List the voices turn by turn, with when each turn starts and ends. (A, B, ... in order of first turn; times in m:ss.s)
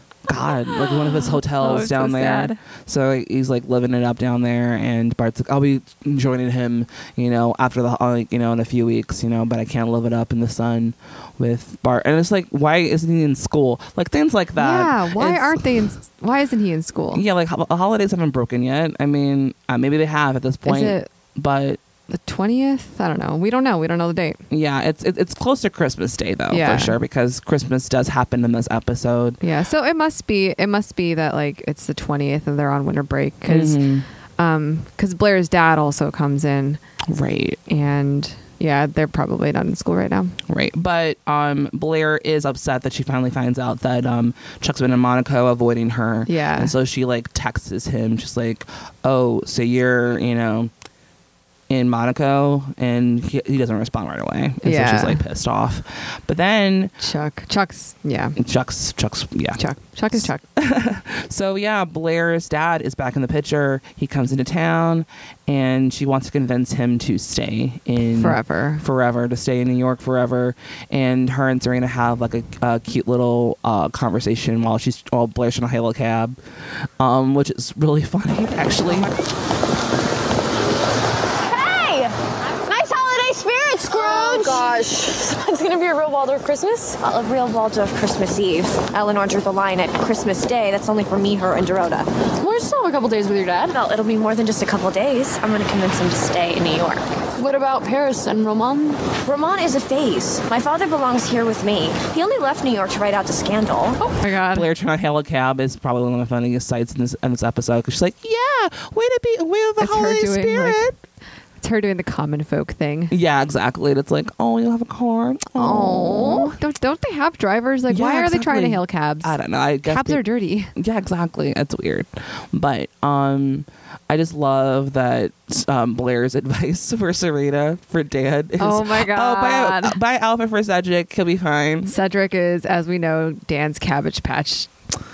0:00.3-0:15.8 A
0:00.7-0:02.6 B
0:14.6-0:17.2 B
0:17.1-0:21.8 A
0:20.6-0:21.1 B
0:22.1-0:24.4 B
0:24.5-0:29.4 A
0:26.5-0:27.0 B
0:29.4-0:33.8 B
0:33.5-0:34.0 A
0:34.4-0:36.8 B
0:37.1-0:37.6 A
0:37.7-0:40.4 B
0:40.5-0:50.7 A
0:46.2-0:46.7 B
0:51.7-0:56.9 A
0:54.6-0:55.2 B
0:57.0-0:58.4 B
0:58.4-0:59.6 A
0:59.6-1:00.4 B
1:00.1-1:16.4 A
1:08.1-1:08.8 B
1:17.0-1:19.1 A
1:21.5-1:22.1 C
1:22.7-1:27.0 D
1:23.8-1:24.8 C
1:27.0-1:32.1 C
1:32.4-1:33.8 D
1:33.7-1:37.1 C
1:37.4-1:39.0 D
1:39.2-1:44.0 C
1:44.0-1:44.7 B
1:44.4-1:51.0 A
1:49.8-1:50.8 B
1:51.6-1:53.1 B
1:53.1-1:56.6 A
1:55.6-2:00.7 B
1:57.9-2:00.2 A
2:00.7-2:11.9 A
2:08.6-2:10.0 B
2:11.8-2:14.7 B